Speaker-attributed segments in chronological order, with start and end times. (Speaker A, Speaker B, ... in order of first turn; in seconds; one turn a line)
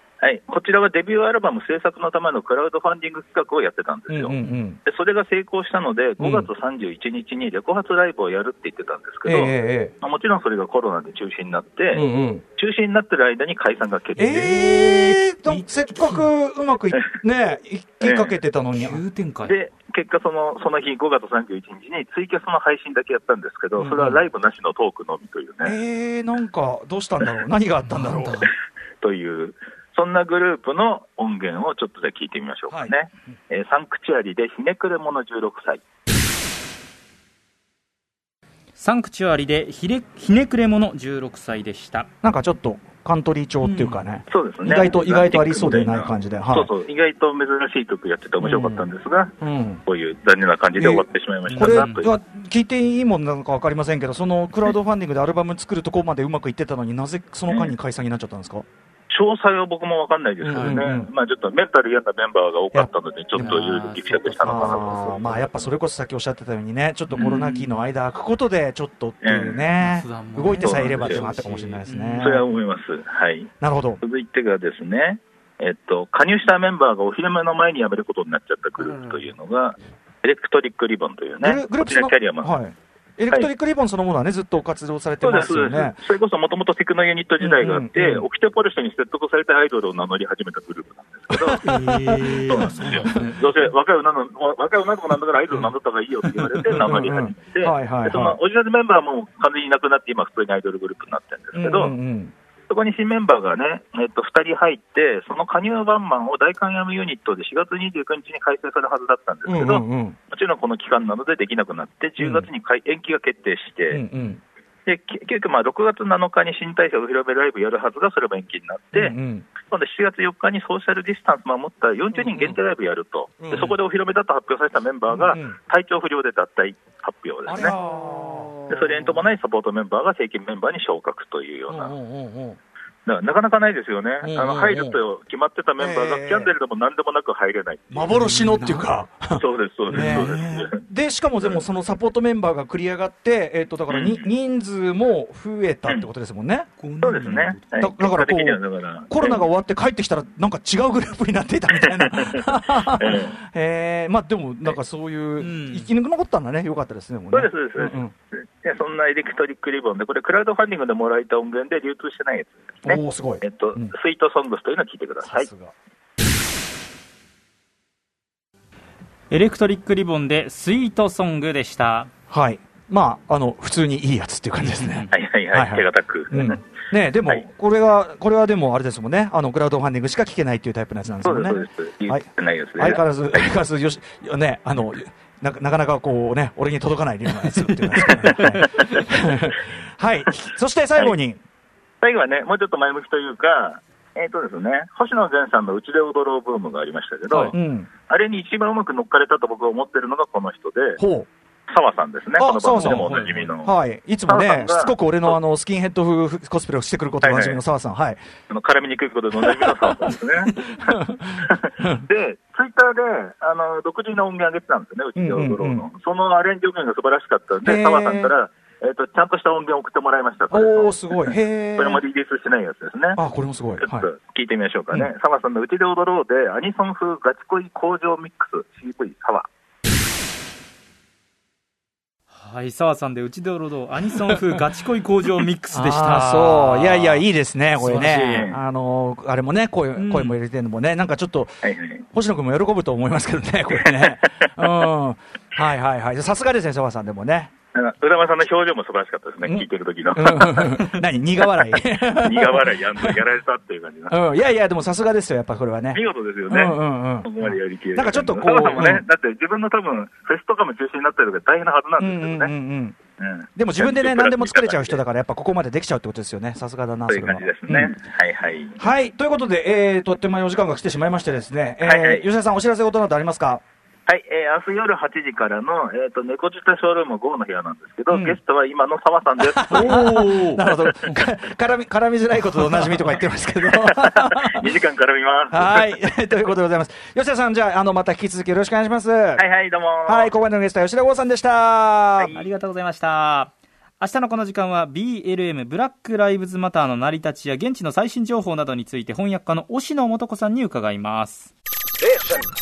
Speaker A: 0.2-14.5
Speaker B: 4.1-4.8
Speaker B: 6.2-6.5
Speaker B: 9.2-9.9
Speaker B: 11.9-12.4
Speaker B: 14.2-19.0
Speaker C: 14.2-16.3
Speaker A: 18.0-18.4
Speaker C: 18.7-19.5
Speaker A: 19.4-25.8
Speaker B: 23.8-24.2
Speaker B: 25.6-28.5
Speaker C: 27.9-28.5
Speaker A: 29.0-35.8
Speaker B: 32.7-33.0
Speaker C: 38.8-42.1
Speaker B: 42.2-46.7
Speaker C: 43.6-44.0
Speaker A: 44.3-52.1
Speaker B: 48.4-48.9
Speaker B: 49.4-49.8
Speaker B: 50.8-58.6
Speaker C: 51.5-51.9
Speaker A: 57.5-57.7
Speaker A: 59.1-65.4
Speaker B: 60.4-61.1
Speaker C: 60.5-60.8
Speaker C: 63.3-65.4
Speaker B: 64.4-72.5
Speaker A: 67.1-67.5
Speaker C: 67.2-67.6
Speaker A: 69.2-69.7
Speaker C: 69.8-72.3
Speaker A: 70.6-71.3
Speaker A: 72.2-82.6
Speaker B: 73.6-74.0
Speaker C: 78.8-79.3
Speaker B: 81.4-86.0
Speaker A: 85.2-91.6
Speaker B: 87.4-88.3
Speaker B: 91.3-93.3
Speaker C: 91.6-93.4
Speaker A: 92.3-101.9
Speaker B: 96.7-98.4
Speaker B: 101.5-102.3
Speaker A: 102.7-114.0
Speaker B: 109.5-110.2
Speaker B: 112.2-112.5
Speaker B: 113.9-114.4
Speaker A: 114.8-127.8
Speaker B: 118.9-119.5
Speaker B: 122.2-122.5
Speaker B: 123.4-123.8
Speaker B: 125.1-125.6
Speaker B: 127.5-128.7
Speaker A: 128.7-131.9
Speaker B: 131.7-132.6
Speaker A: 133.1-138.2
Speaker B: 134.2-135.0
Speaker B: 135.8-136.5
Speaker B: 137.9-146.7
Speaker C: 138.1-138.8
Speaker A: 139.3-140.8
Speaker C: 139.9-140.3
Speaker A: 141.4-141.7
Speaker A: 143.9-144.3
Speaker C: 146.8-147.8
Speaker A: 147.0-149.5
Speaker B: 147.7-158.1
Speaker A: 151.7-153.4
Speaker C: 155.4-155.9
Speaker A: 157.3-165.5
Speaker B: 162.8-163.9
Speaker B: 165.2-165.7
Speaker C: 169.3-172.1
Speaker B: 172.3-191.4
Speaker A: 175.1-176.6
Speaker A: 181.2-183.6
Speaker A: 188.0-189.3
Speaker A: 192.0-197.6
Speaker C: 197.3-197.5
Speaker B: 197.5-197.9
Speaker A: 198.1-201.0
Speaker B: 201.0-201.3
Speaker A: 201.7-203.7
Speaker B: 202.4-208.2
Speaker C: 202.8-203.5
Speaker A: 204.3-205.4
Speaker A: 207.2-207.6
Speaker A: 208.5-223.2
Speaker B: 210.7-212.0
Speaker B: 215.2-215.9
Speaker B: 217.6-218.3
Speaker B: 220.5-222.0
Speaker B: 223.1-224.1
Speaker A: 223.8-229.5
Speaker C: 232.3-238.5
Speaker B: 235.7-247.5
Speaker A: 238.2-238.6
Speaker C: 239.9-240.4
Speaker A: 241.6-242.0
Speaker A: 243.7-244.9
Speaker A: 247.7-251.0
Speaker B: 249.4-253.2
Speaker A: 251.8-254.2
Speaker B: 254.1-259.1
Speaker A: 255.9-262.5
Speaker B: 262.0-263.0
Speaker A: 263.2-265.0
Speaker B: 263.6-267.9
Speaker A: 267.1-268.8
Speaker B: 268.8-273.6
Speaker A: 271.8-272.3
Speaker A: 274.1-280.0
Speaker B: 278.1-278.4
Speaker B: 279.4-284.7
Speaker C: 279.7-280.6
Speaker A: 283.7-285.9
Speaker B: 285.5-289.4
Speaker A: 289.4-290.3
Speaker B: 290.1-292.3
Speaker A: 292.2-292.4
Speaker C: 292.3-301.5